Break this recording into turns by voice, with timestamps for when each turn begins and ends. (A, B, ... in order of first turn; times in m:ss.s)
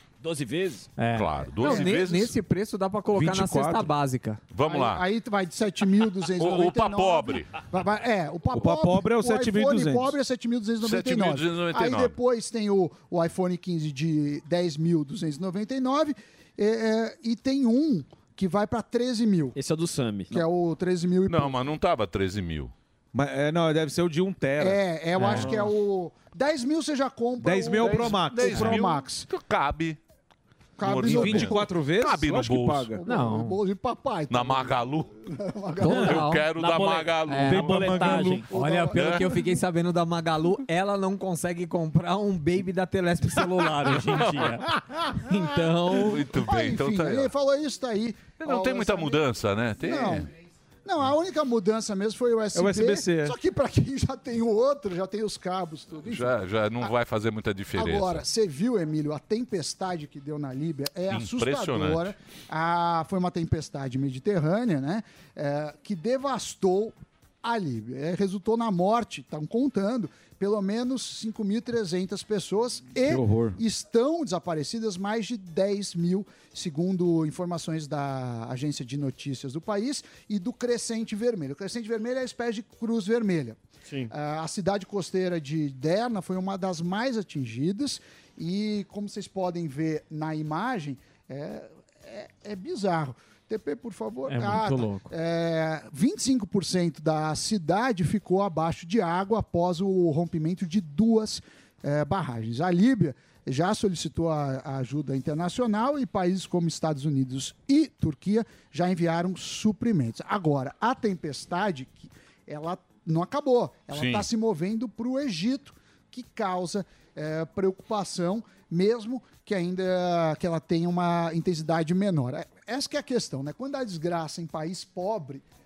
0:00.2-0:00.9 A
0:01.0-0:04.4 B
0:01.1-0:02.4 C
0:01.6-0:02.0 D
0:03.1-0:03.9 E
0:04.5-0:05.0 C
0:04.6-0:19.5 D
0:06.4-0:07.5 C
0:08.5-0:10.1 E
0:10.8-0:12.2 C
0:19.5-0:20.3 A
0:20.3-0:21.6 D
0:21.3-0:22.7 C
0:23.1-0:25.7 E
0:24.6-0:29.3 D
0:25.2-0:25.6 B
0:27.4-0:28.9 E
0:27.8-0:30.0 C
0:30.8-0:31.7 D
0:30.8-0:32.9 C
0:30.9-0:33.0 E
0:32.9-0:36.2 D
0:33.0-0:33.6 B
0:34.3-0:35.1 C
0:35.8-0:36.7 B
0:35.9-0:38.1 C
0:36.6-0:38.5 A
0:37.2-0:46.3 B
0:37.4-0:38.5 E
0:38.5-0:39.4 D
0:38.9-0:39.3 C
0:43.8-0:44.6 C
0:45.9-0:47.3 C
0:46.3-0:49.2 D
0:48.4-0:50.3 C
0:49.8-0:50.3 D
0:50.8-0:56.9 D
0:52.5-0:53.4 E
0:56.1-0:58.2 C
0:57.7-2:05.4 D
1:01.1-1:02.1 C
1:13.0-1:13.6 E
1:34.3-1:35.1 B
1:53.9-1:54.2 C